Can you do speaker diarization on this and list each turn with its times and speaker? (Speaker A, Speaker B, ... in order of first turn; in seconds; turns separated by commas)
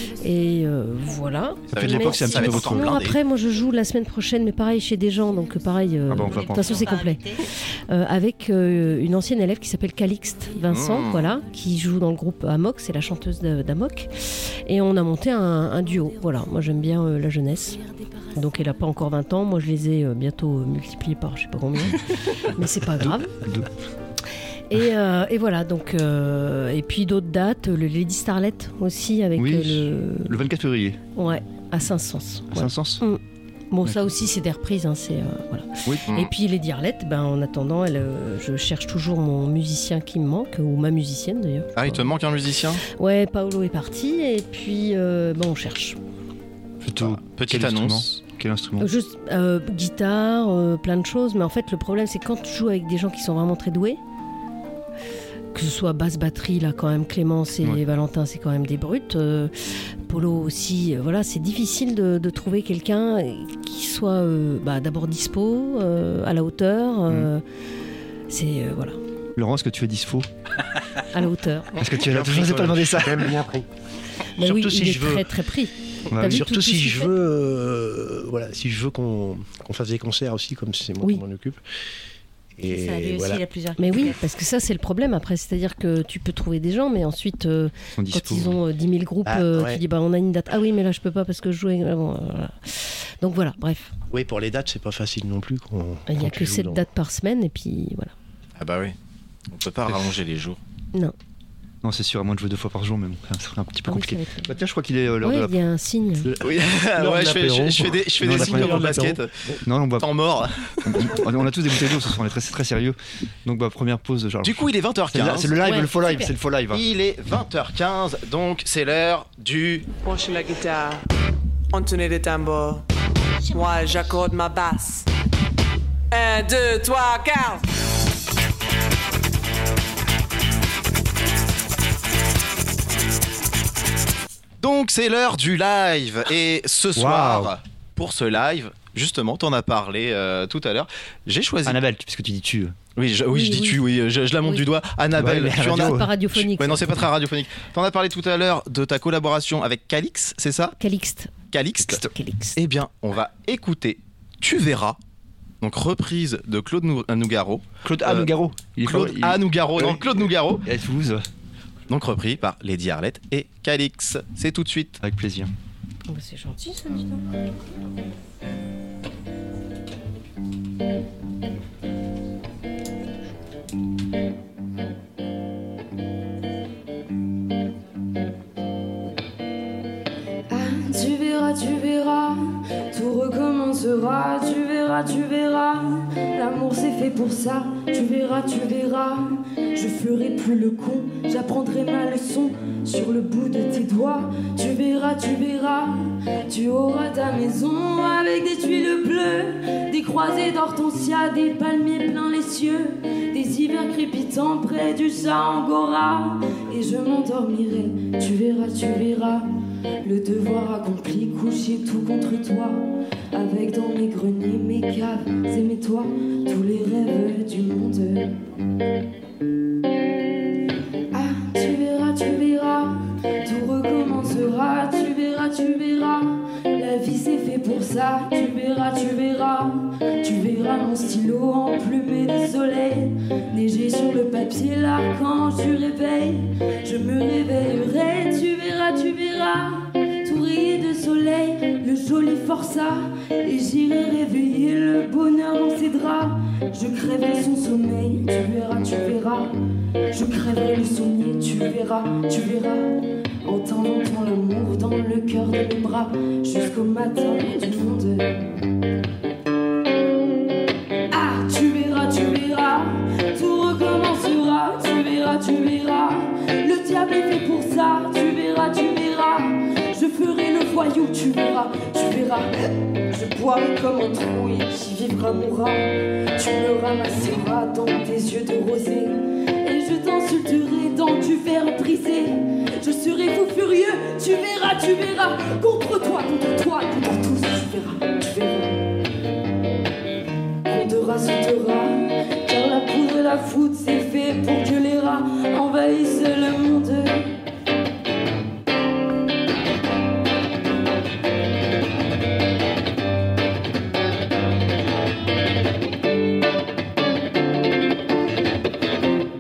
Speaker A: 0.2-23.4, Speaker B: 1.7-3.2, Speaker C: 1.7-3.1, Speaker C: 6.1-6.8, Speaker D: 6.3-7.4, Speaker B: 10.7-11.3, Speaker C: 22.8-23.7, Speaker A: 24.7-30.4, Speaker C: 29.4-31.0, Speaker A: 31.1-33.2, Speaker C: 32.5-33.0, Speaker A: 33.7-42.0, Speaker C: 33.8-34.1, Speaker B: 41.8-42.8, Speaker A: 42.9-46.0, Speaker C: 46.8-48.9, Speaker B: 47.0-48.2, Speaker A: 48.8-54.0, Speaker A: 55.5-67.4, Speaker A: 68.3-69.0, Speaker C: 69.3-70.3, Speaker A: 71.1-71.7, Speaker C: 71.8-73.3, Speaker E: 71.9-73.7, Speaker E: 74.4-75.3, Speaker A: 74.4-77.1, Speaker C: 76.1-76.5, Speaker E: 76.2-81.6, Speaker E: 82.6-83.4, Speaker D: 82.7-84.2, Speaker A: 83.8-93.9, Speaker C: 88.0-88.6, Speaker E: 89.2-89.8, Speaker E: 94.1-96.8, Speaker A: 96.1-98.1, Speaker B: 98.6-98.9, Speaker B: 99.5-100.6, Speaker C: 101.8-105.6, Speaker A: 103.9-104.5, Speaker A: 105.2-106.3, Speaker E: 106.2-109.6, Speaker B: 106.4-109.3, Speaker C: 108.2-110.1, Speaker B: 110.0-111.0, Speaker C: 110.8-116.8, Speaker B: 114.4-115.5, Speaker A: 115.6-116.3, Speaker B: 116.7-119.9, Speaker F: 120.0-121.0, Speaker F: 121.7-122.8, Speaker F: 123.5-125.1, Speaker F: 126.1-127.6, Speaker B: 134.6-141.8, Speaker C: 136.9-137.5, Speaker C: 141.6-142.8, Speaker B: 142.9-150.8, Speaker A: 143.3-143.8, Speaker C: 145.1-146.1, Speaker A: 145.7-147.1, Speaker A: 150.8-151.3, Speaker B: 151.5-152.0, Speaker A: 152.0-152.6, Speaker B: 152.6-155.0, Speaker B: 155.6-158.3, Speaker C: 157.8-161.2, Speaker B: 158.8-160.6, Speaker B: 161.9-165.0, Speaker C: 165.0-165.5, Speaker A: 166.1-167.0, Speaker D: 166.8-167.0, Speaker G: 180.5-209.5, Speaker G: 210.0-218.4, Speaker G: 221.1-249.5, Speaker G: 250.1-258.4, Speaker G: 261.1-288.8, Speaker G: 290.6-297.3